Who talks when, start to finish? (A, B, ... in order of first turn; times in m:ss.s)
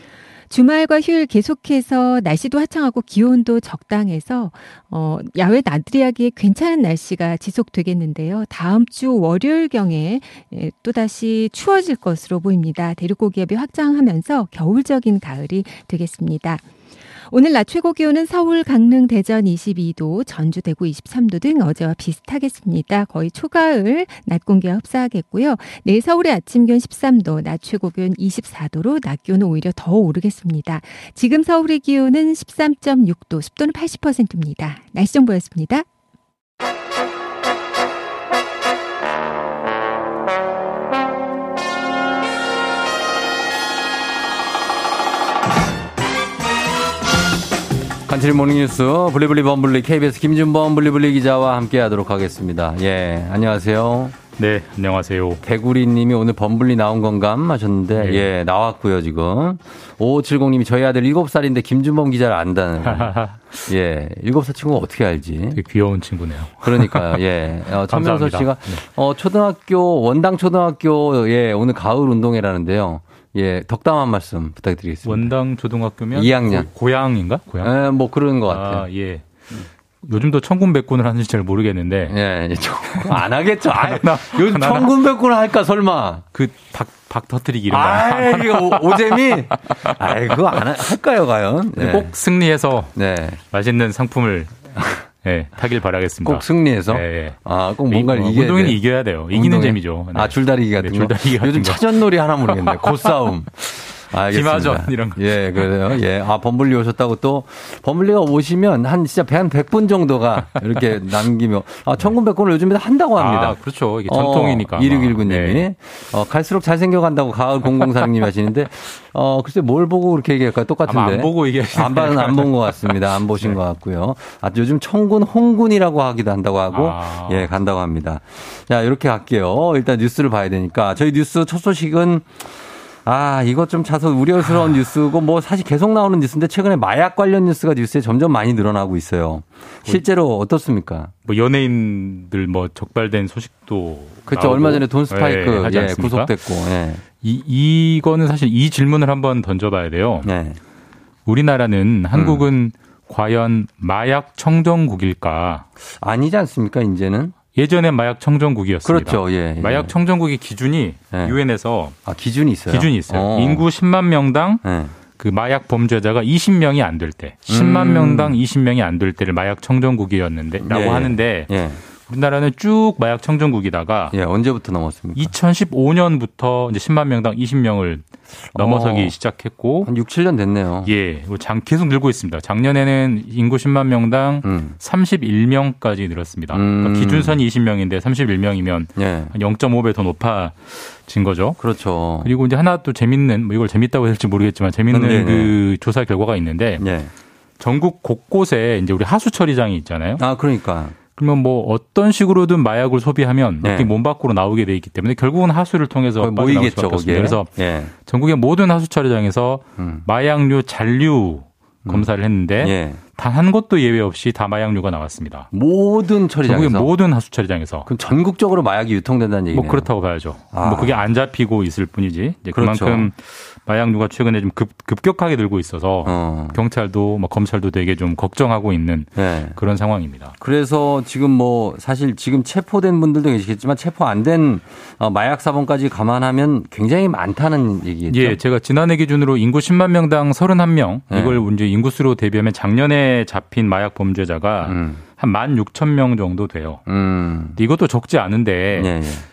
0:00.5-0:16.6 A
0:17.3-0:35.8 A
0:48.1-0:54.2 B
0:54.4-0:55.4 C
0:55.4-1:05.6 B
0:58.0-0:58.3 C
1:02.8-1:03.5 C
1:05.6-1:07.2 C
1:06.6-1:15.3 B
1:07.9-1:08.8 C
1:15.0-1:17.7 C
1:16.1-1:16.7 B
1:17.6-1:18.9 B
1:18.5-1:22.1 C
1:22.1-1:26.2 B
1:22.9-1:24.9 C
1:26.3-1:30.6 C
1:27.7-1:32.1 B
1:31.8-1:41.9 C
1:32.9-1:33.4 B
1:36.2-2:12.3 B
1:42.5-1:46.0 C
1:53.2-1:55.6 C
2:00.9-2:03.6 C
2:06.7-2:07.5 C
2:13.0-2:21.1 B
2:14.4-2:14.8 C
2:21.2-2:26.3 C
2:24.3-2:27.0 B
2:27.2-2:30.3 C
2:30.2-2:30.6 B
2:31.2-2:35.6 C
2:32.1-2:32.5 B
2:36.0-2:37.3 B
2:37.5-2:42.0 C
2:38.8-2:39.9 B
2:41.1-2:41.4 B
2:42.0-2:43.6 B
2:42.7-2:44.6 C
2:44.6-2:44.9 B
2:45.2-2:54.1 C
2:47.5-2:48.4 B
2:50.6-2:51.8 B
2:54.1-2:55.3 B
2:55.1-2:59.9 C
2:58.5-2:59.1 B
2:59.8-3:00.9 B
3:00.8-3:11.6 C
3:04.4-3:04.8 B
3:06.5-3:07.4 B
3:09.0-3:09.3 B
3:11.6-3:12.3 B
3:12.2-3:16.8 C
3:14.9-3:15.5 B
3:16.8-3:17.1 B
3:17.6-3:20.2 C
3:20.2-3:21.0 B
3:21.1-3:35.5 C
3:23.6-3:23.9 B
3:26.2-3:27.9 B
3:29.8-3:30.0 B
3:31.8-3:33.0 B
3:35.5-3:36.9 B
3:36.4-3:37.9 C
3:37.8-3:39.9 B
3:39.5-3:50.3 C
3:40.5-3:41.0 B
3:42.5-3:43.1 B
3:46.0-3:46.6 B
3:49.2-3:49.6 B
3:50.4-3:58.4 B
3:58.1-4:06.8 C
4:01.1-4:01.4 B
4:04.6-4:05.0 B
4:06.9-4:07.6 B
4:07.6-4:09.0 C
4:08.7-4:09.2 B